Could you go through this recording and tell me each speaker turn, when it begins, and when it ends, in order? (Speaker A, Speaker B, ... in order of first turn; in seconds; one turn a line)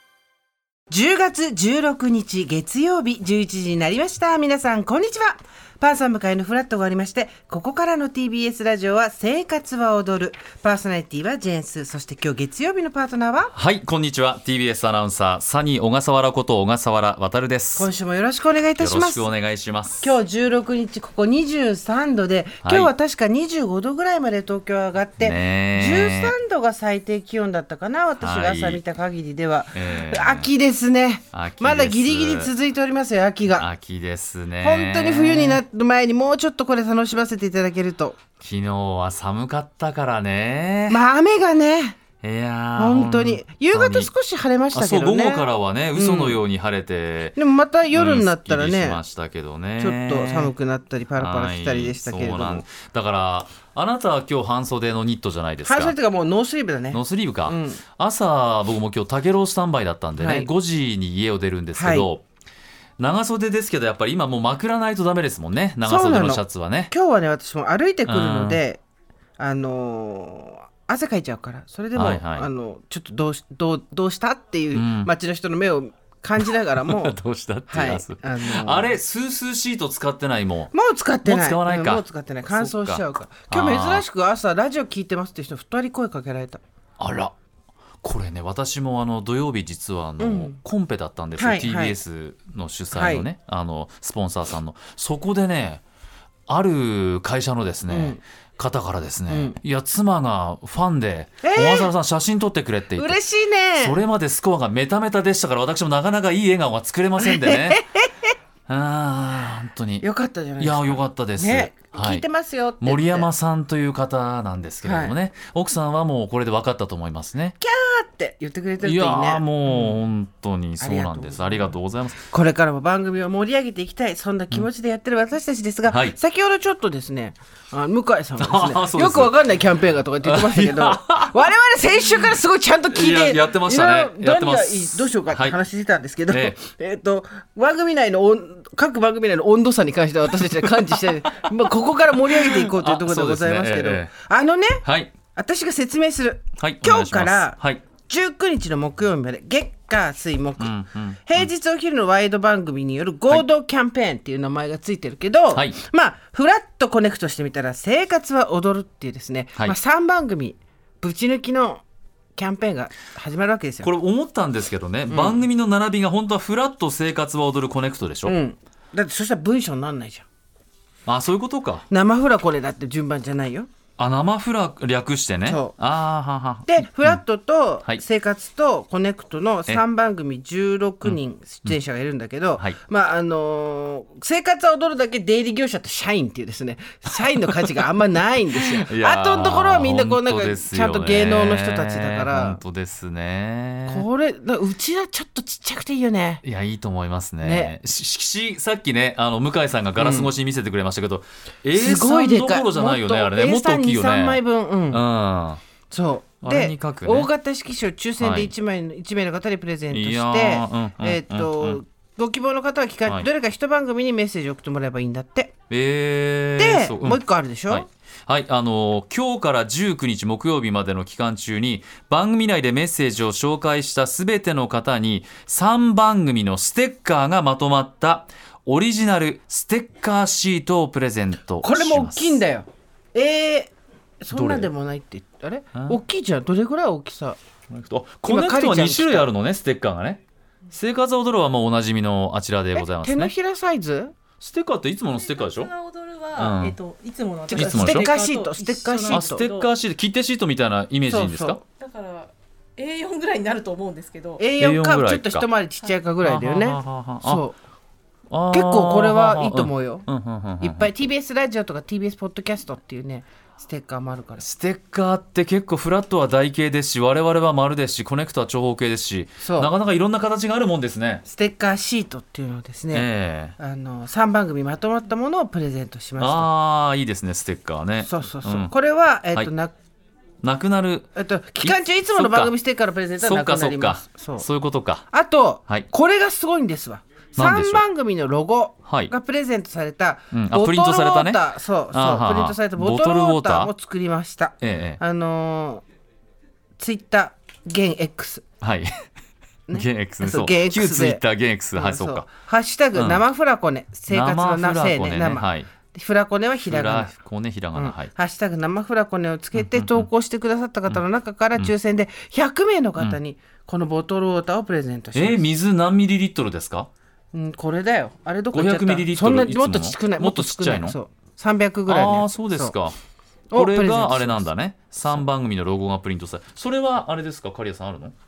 Speaker A: 0.9-13.5
Speaker B: 13.5-17.9
Speaker A: 17.8-19.3
Speaker B: 18.8-20.1
Speaker A: 20.0-33.7
Speaker B: 22.6-22.9
Speaker B: 25.2-26.3
Speaker B: 28.2-28.8
Speaker B: 29.7-30.5
Speaker B: 31.3-32.5
Speaker B: 33.6-35.6
Speaker A: 34.6-38.2
Speaker B: 38.4-41.0
Speaker A: 40.9-42.0
Speaker B: 42.2-44.1
Speaker A: 42.8-46.4
Speaker B: 44.7-47.4
Speaker A: 47.4-49.0
Speaker B: 47.9-50.5
Speaker A: 49.8-52.7
Speaker B: 51.2-56.0
Speaker A: 55.6-57.8
Speaker B: 56.9-62.2
Speaker A: 60.2-60.5
Speaker A: 61.8-62.1
Speaker B: 63.0-66.9
Speaker A: 65.8-68.8
Speaker B: 68.1-68.6
Speaker A: 69.4-77.2
Speaker B: 72.0-72.5
Speaker B: 74.7-75.1
Speaker B: 76.4-80.7
Speaker A: 77.7-79.0
Speaker A: 80.7-86.6
Speaker B: 81.2-84.0
Speaker B: 87.0-87.3
Speaker B: 88.0-95.8
Speaker A: 90.2-90.6
Speaker A: 91.4-92.0
Speaker A: 92.9-93.3
Speaker B: 96.5-103.2
Speaker A: 97.9-98.2
Speaker A: 99.3-99.6
Speaker A: 101.4-101.9
Speaker A: 103.0-104.0
Speaker B: 103.8-107.8
Speaker A: 107.2-108.3
Speaker B: 108.7-110.1
Speaker A: 110.0-113.3
Speaker B: 110.6-112.3
Speaker B: 112.8-117.6
Speaker A: 114.8-115.2
Speaker A: 117.6-120.0
Speaker B: 118.8-122.2
Speaker A: 120.8-161.8
Speaker B: 125.9-126.2
Speaker B: 128.4-129.5
Speaker B: 130.2-131.4
Speaker B: 132.9-135.6
Speaker B: 136.3-136.6
Speaker B: 142.3-144.1
Speaker B: 144.8-145.1
Speaker B: 146.6-147.8
Speaker B: 150.6-151.5
Speaker B: 155.5-155.8
Speaker A: 162.3-163.9
Speaker B: 163.8-168.3
Speaker A: 165.1-165.4
Speaker A: 168.3-170.2
Speaker B: 171.1-171.9
Speaker A: 171.9-173.7
Speaker B: 174.0-177.2
Speaker A: 175.4-175.8
Speaker A: 176.7-192.6
Speaker B: 181.0-181.8
Speaker B: 188.6-194.1
Speaker A: 193.9-196.4
Speaker B: 196.4-205.6
Speaker A: 197.4-197.7
Speaker A: 200.0-200.3
Speaker A: 201.8-205.1
Speaker A: 205.9-215.5
Speaker B: 206.4-207.3
Speaker B: 208.2-208.5
Speaker B: 209.9-211.8
Speaker B: 215.7-232.4
Speaker A: 216.6-217.9
Speaker A: 231.6-237.4
Speaker B: 234.3-234.7
Speaker B: 235.7-236.0
Speaker B: 237.7-243.3
Speaker A: 238.3-239.3
Speaker A: 242.8-244.1
Speaker B: 244.4-245.7
Speaker C: 245.1-249.7
Speaker B: 246.4-246.8
Speaker A: 247.5-249.5
Speaker B: 247.6-248.1
Speaker B: 249.1-251.6
Speaker A: 251.1-251.6
Speaker C: 251.8-254.4
Speaker A: 254.4-257.6
Speaker B: 254.6-255.5
Speaker B: 256.2-257.4
Speaker B: 258.3-260.9
Speaker A: 258.5-260.1
Speaker A: 260.6-264.4
Speaker B: 264.4-271.2
Speaker A: 269.4-269.7
Speaker A: 271.3-276.5
Speaker B: 272.9-273.6
Speaker B: 276.2-278.7
Speaker A: 278.0-279.7
Speaker B: 280.4-281.1
Speaker A: 281.1-284.5
Speaker B: 281.6-282.5
Speaker B: 283.2-285.1
Speaker A: 285.1-295.8
Speaker B: 287.4-287.8
Speaker B: 288.9-289.1
Speaker B: 290.3-293.7
Speaker B: 294.6-295.0
Speaker A: 296.8-298.4
Speaker B: 298.6-298.9
Speaker A: 299.7-301.2
Speaker B: 299.7-302.3
Speaker A: 301.8-307.1
Speaker B: 302.9-303.2
Speaker B: 304.1-305.7
Speaker B: 306.6-308.1
Speaker A: 307.8-315.4
Speaker B: 309.5-310.1
Speaker B: 315.1-316.9
Speaker A: 317.3-322.8
Speaker B: 318.5-321.0
Speaker B: 321.9-323.0
Speaker A: 323.5-324.5
Speaker B: 323.5-328.1